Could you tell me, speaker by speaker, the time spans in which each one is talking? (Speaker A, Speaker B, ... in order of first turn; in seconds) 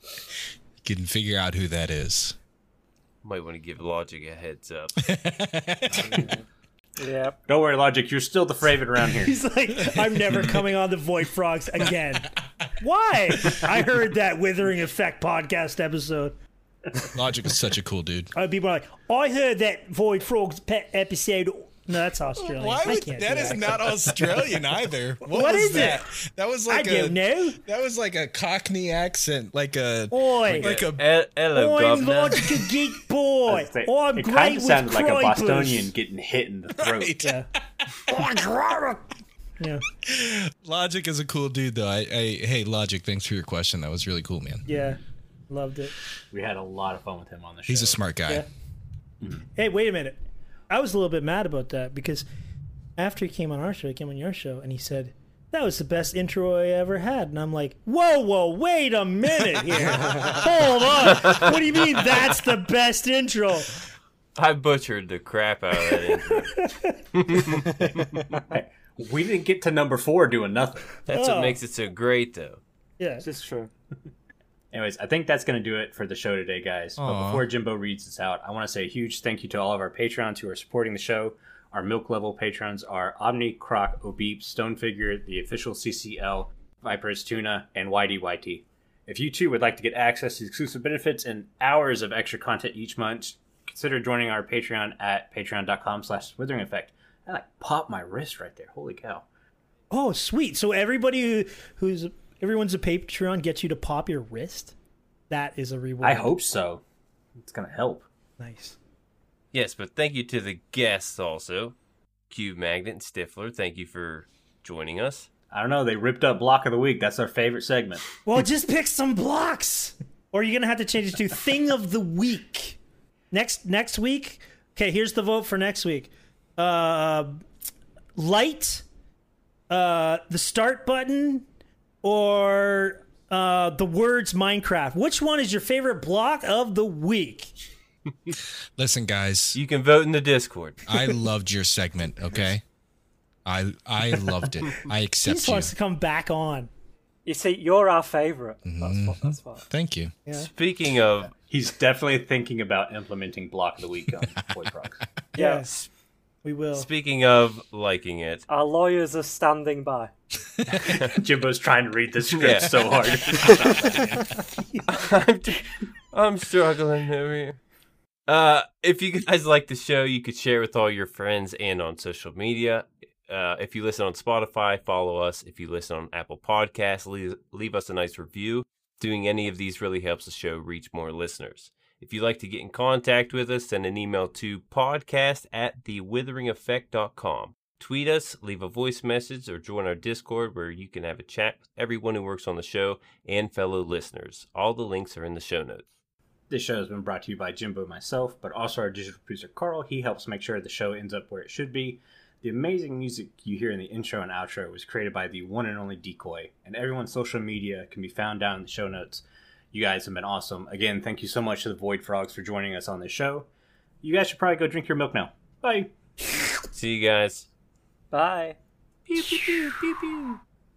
Speaker A: 0.8-2.4, 5.0-6.3, 17.1-18.3, 22.4-31.0, 36.8-38.5, 40.0-44.6, 47.6-48.4, 59.7-60.5, 77.0-77.5, 138.8-139.6, 140.9-142.6, 143.4-145.7, 148.6-150.1, 163.8-164.2
Speaker B: 3.2-5.0, 30.6-32.6, 64.3-68.2, 71.1-72.6, 109.5-111.7, 112.3-115.3, 139.5-140.9, 150.4-151.3, 156.7-158.4, 162.3-164.0, 164.9-167.6, 168.3-195.8, 216.7-217.5, 219.1-220.3
Speaker C: 7.0-7.4, 73.2-73.7, 147.2-149.6, 155.4-155.7, 158.5-160.1, 218.1-218.6
Speaker D: 7.5-9.3, 33.5-37.1, 46.3-48.0, 68.4-70.9, 74.7-99.2, 106.0-106.8, 107.4-108.1, 115.5-118.0, 151.5-155.0, 160.7-164.2, 196.5-213.5, 214.0-215.9
Speaker E: 9.2-16.3, 18.3-24.0, 25.2-26.0, 26.7-27.6, 30.1-30.7, 31.5-35.9, 37.2-37.5, 38.1-39.0, 44.6-45.9, 49.5-50.2, 50.7-52.2, 53.0-63.8, 66.2-67.0, 71.1-71.6, 73.0-73.3, 99.9-104.7, 105.3-106.3, 108.4-108.8, 118.2-122.8, 123.3-127.4, 128.2-128.8, 129.7-131.4, 132.0-137.5, 145.2-146.7, 155.3-155.7, 156.4-156.9, 164.6-164.8